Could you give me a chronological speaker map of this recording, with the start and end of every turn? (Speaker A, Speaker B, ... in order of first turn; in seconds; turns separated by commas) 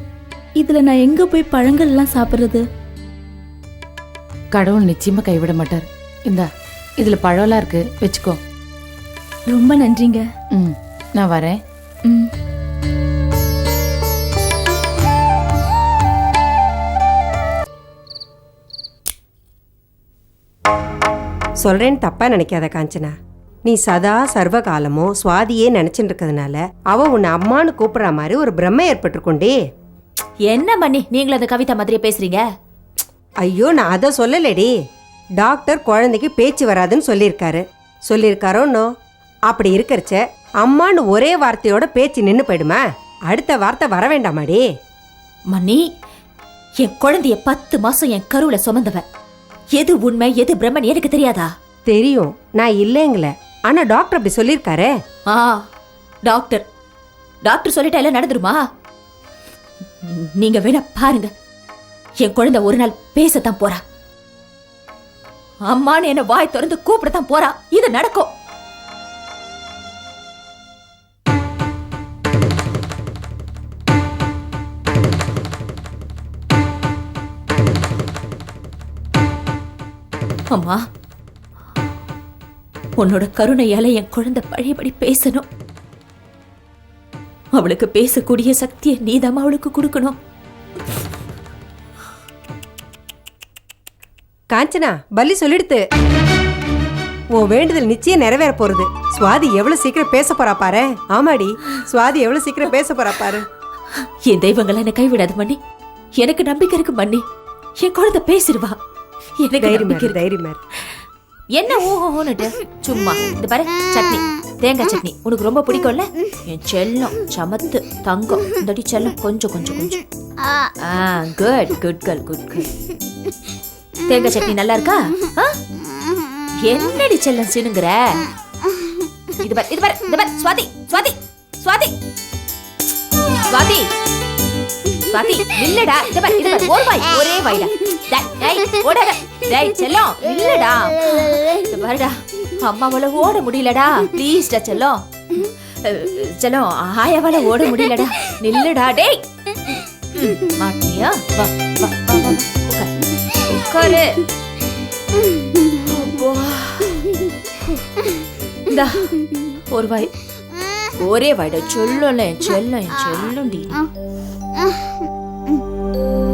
Speaker A: 0.6-2.6, Speaker B: 4.5-6.5, Speaker B: 7.0-8.4, Speaker A: 9.5-10.2, Speaker B: 10.5-11.6, Speaker C: 21.6-23.1, Speaker C: 23.7-29.5, Speaker D: 30.5-32.4, Speaker C: 33.4-34.7, Speaker C: 35.4-38.9, Speaker C: 39.5-44.6, Speaker D: 45.5-45.8, Speaker D: 46.8-49.0, Speaker D: 49.7-51.5, Speaker C: 51.9-54.9, Speaker D: 55.3-55.6, Speaker D: 56.2-56.6, Speaker D: 57.4-58.6, Speaker D: 60.2-61.3, Speaker D: 62.2-63.8, Speaker D: 65.7-68.3, Speaker D: 80.5-80.8, Speaker D: 83.0-85.4, Speaker D: 87.5-90.1, Speaker C: 94.5-95.8, Speaker C: 97.4-103.4, Speaker D: 104.2-105.6, Speaker D: 106.2-107.2, Speaker D: 107.8-108.8, Speaker D: 109.4-110.2, Speaker C: 109.6-110.6, Speaker D: 111.5-120.0, Speaker D: 120.8-122.7, Speaker D: 124.1-125.5, Speaker D: 126.6-128.2, Speaker D: 129.4-131.9, Speaker D: 133.5-133.9, Speaker D: 135.1-149.2, Speaker D: 150.2-152.9, Speaker D: 153.5-154.2, Speaker D: 155.9-157.0, Speaker D: 158.7-159.1, Speaker D: 159.7-160.1, Speaker D: 161.0-163.8